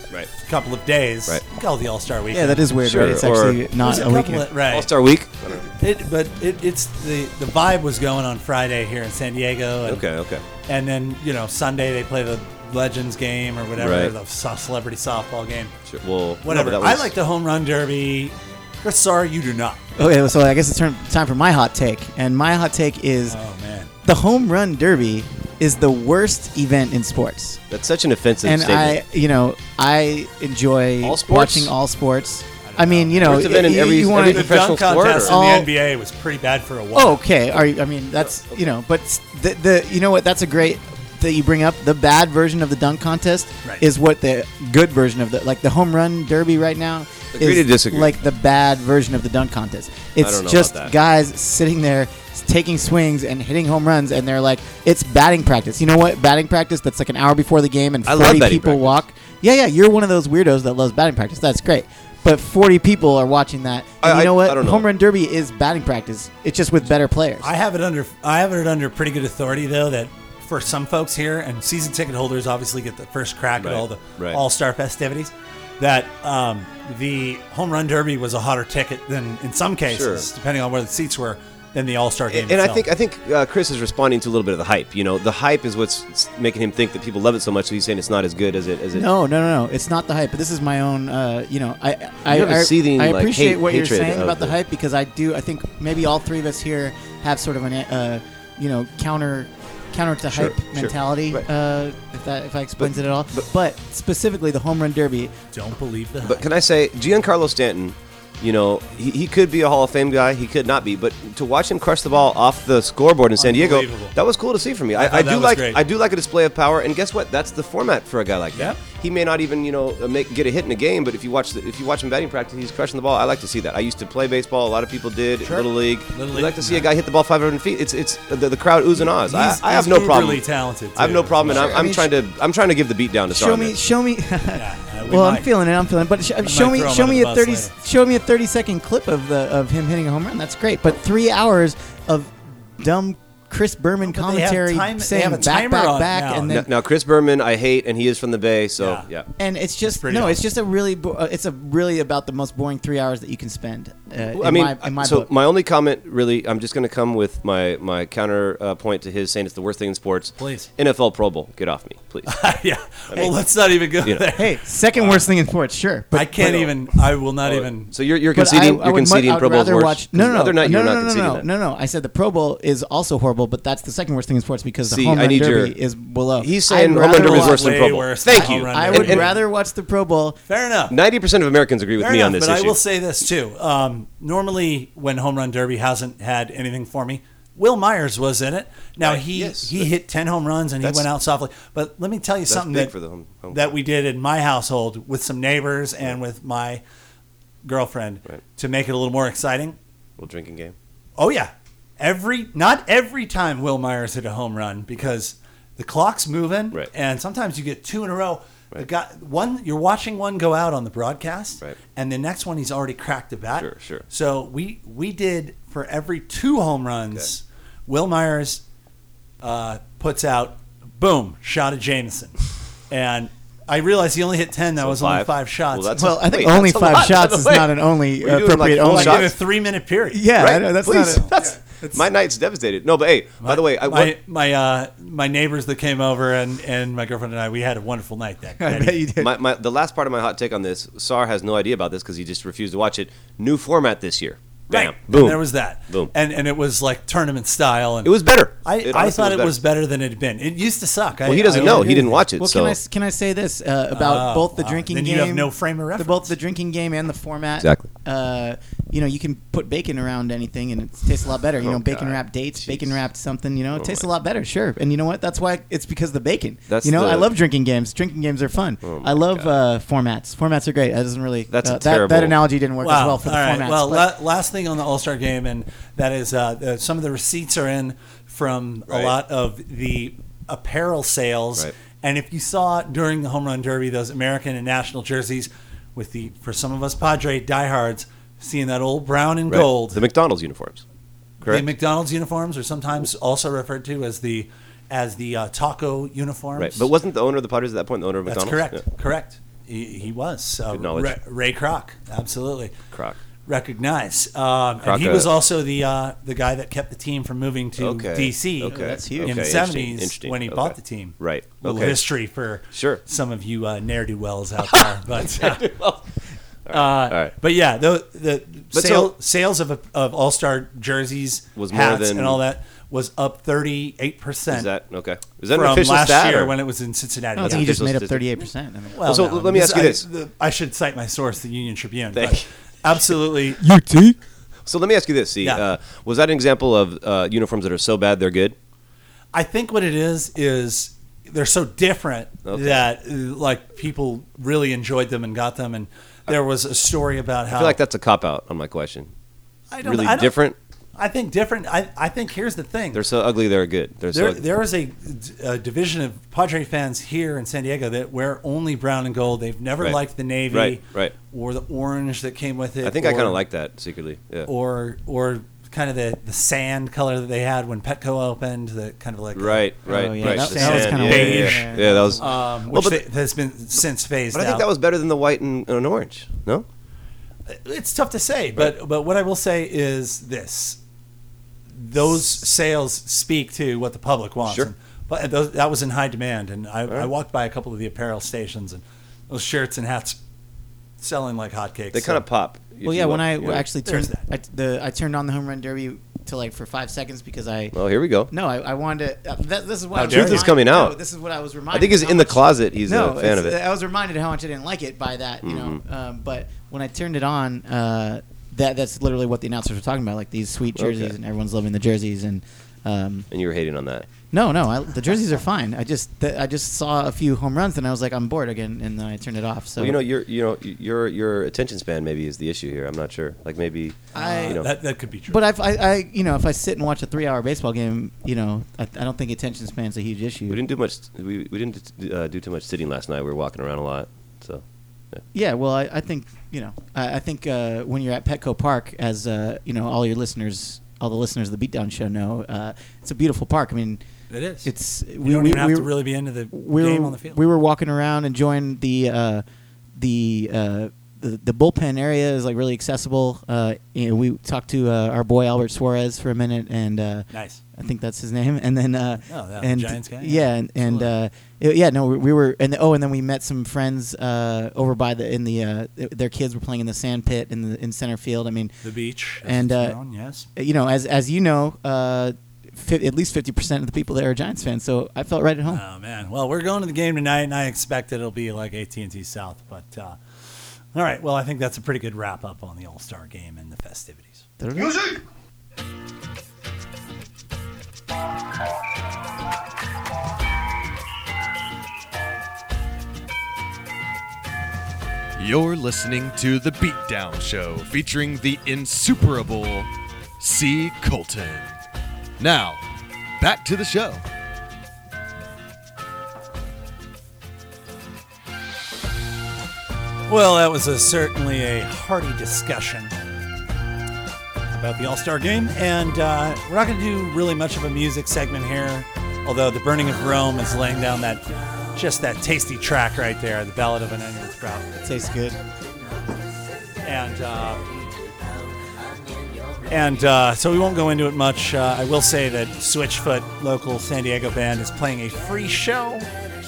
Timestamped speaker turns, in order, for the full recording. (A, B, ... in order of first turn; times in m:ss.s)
0:00.4-0:02.7 A
0:02.3-0:04.5 B
0:02.8-0:03.6 C
0:03.8-0:04.9 A
0:04.7-0:05.7 C
0:05.6-0:10.0 A
0:09.8-0:10.4 C
0:10.7-0:15.7 A
0:13.8-0:14.1 C
0:15.9-0:17.1 C
0:16.4-0:19.8 A
0:20.0-0:23.4 B
0:23.3-0:23.9 A
0:24.0-0:27.6 B
0:27.7-0:29.0 C
0:28.4-0:35.7 B
0:31.0-0:31.7 C
0:32.6-0:37.2 A
0:33.2-0:35.4 C
0:36.9-1:07.5 B
0:47.3-0:48.1 C
0:50.2-0:50.9 C
0:58.0-0:59.0 C
1:04.0-1:04.8 C
1:07.4-1:22.8 A
1:13.6-1:14.4 C
1:19.9-1:20.3 C
1:22.3-1:29.1 C
1:28.9-1:45.3 B
1:32.3-1:34.5 C
1:40.3-1:41.4 C
1:42.8-1:43.4 C
1:45.5-1:46.4 A
1:46.2-2:13.8 C
1:53.4-1:54.1 A
1:54.9-1:55.8 A
1:58.5-1:58.8 A
2:05.4-2:06.9 A
2:09.2-2:11.7 A
2:11.4-2:12.1 B
2:13.3-2:26.7 B
2:14.5-2:15.5 A
2:16.4-2:17.7 A
2:24.0-2:26.5 A
2:26.5-2:29.3 C
2:28.8-2:29.1 A
2:29.4-2:35.3 B
2:30.0-2:30.4 A
2:34.3-2:42.3 C
2:40.4-2:40.7 A
2:42.3-2:45.3 A
2:44.3-2:46.6 B
2:46.1-2:47.9 A
2:46.4-2:46.7 C
2:47.4-2:51.4 C
2:48.3-3:00.4 B
2:54.9-2:55.7 C
2:56.4-2:59.3 C
2:57.1-2:59.4 A
3:00.5-3:01.0 A
3:00.9-3:02.8 C
3:02.0-3:12.9 A
3:09.0-3:09.9 C
3:10.8-3:11.1 C
3:12.5-3:13.7 C
3:13.5-3:16.8 A
3:17.6-3:19.8 A
3:20.2-3:20.7 C
3:21.2-3:38.6 A
3:33.5-3:34.0 C
3:39.4-3:42.4 A
3:42.9-3:46.1 A
3:44.8-3:49.3 C
3:46.0-3:49.3 B
3:48.8-3:50.3 A
3:50.1-3:52.0 B
3:50.4-3:54.1 C
3:53.4-3:59.0 A
3:58.6-3:59.3 B
3:59.2-4:06.1 C
4:04.7-4:12.2 A
4:08.0-4:09.5 C
4:11.2-4:12.8 C
4:11.5-4:34.1 B
4:13.9-4:16.3 A
4:17.6-4:17.9 C
4:21.6-4:23.0 C
4:23.8-4:24.0 C
4:26.7-4:27.3 C
4:28.8-4:29.5 C
4:31.5-4:32.4 C
4:32.8-4:50.0 A
4:38.9-4:39.1 C
4:49.5-4:50.8 C
4:51.4-4:51.7 C
4:51.4-4:56.9 A
4:56.6-4:58.8 C
4:58.3-5:02.7 A
5:00.7-5:01.2 C
5:02.9-5:03.2 C
5:03.4-5:15.7 A
5:04.8-5:05.3 C
5:07.8-5:12.0 C
5:08.7-5:09.6 B
5:12.7-5:13.0 C
5:14.6-5:16.0 C
5:16.6-5:17.3 C
5:16.7-5:24.7 A
5:18.7-5:19.1 C
5:21.6-5:22.4 C
5:24.5-5:26.5 C
5:25.5-5:27.7 A
5:27.4-5:28.2 C
5:27.4-5:29.3 B
5:28.9-5:33.6 A
5:29.0-5:30.0 C
5:32.1-5:32.5 C
5:33.6-5:34.2 B
5:34.6-5:38.5 C
5:39.3-5:47.8 A
5:42.4-5:42.8 C
5:47.5-5:49.1 C
5:49.7-5:50.4 A
5:49.8-5:50.6 C
5:51.0-5:53.0 A
5:52.9-5:54.4 C
5:54.1-6:03.4 A
6:00.5-6:01.1 C
6:02.8-6:04.5 C
6:04.4-6:14.6 A
6:09.3-6:13.0 C
6:09.9-6:12.4 B
6:14.3-6:16.6 C
6:17.5-6:20.8 A
6:21.7-6:30.2 A
6:24.4-6:24.7 C
6:31.0-6:32.2 A
6:31.9-6:33.6 C
6:32.8-6:37.8 B
6:33.8-6:34.2 A
6:37.7-6:38.3 C
6:38.3-6:53.3 B
6:39.9-6:40.5 A
6:40.0-6:41.0 C
6:41.7-6:43.6 C
6:45.4-6:45.8 C
6:50.8-6:51.1 C
6:53.3-6:54.0 C
6:54.3-7:00.0 B
6:59.8-7:04.7 C
7:04.1-7:04.6 B
7:04.1-7:05.4 A
7:05.3-7:10.6 B
7:10.5-7:15.2 C
7:15.3-7:24.0 B
7:24.3-7:24.7 A
7:24.6-7:29.4 B
7:25.2-7:27.4 A
7:30.0-7:48.7 B
7:37.3-7:37.6 A
7:39.3-7:41.1 A
7:48.8-7:50.4 A
7:49.4-7:50.0 B
7:50.5-7:55.8 B
7:55.7-8:00.2 A
8:00.9-8:04.4 A
8:04.6-8:05.2 B
8:15.4-8:21.8 D
8:22.4-8:22.8 D
8:23.4-8:24.2 D
8:30.3-8:33.1 A
8:34.7-8:44.9 A
8:45.0-8:45.6 B
8:47.0-8:47.9 A
8:49.9-8:56.3 A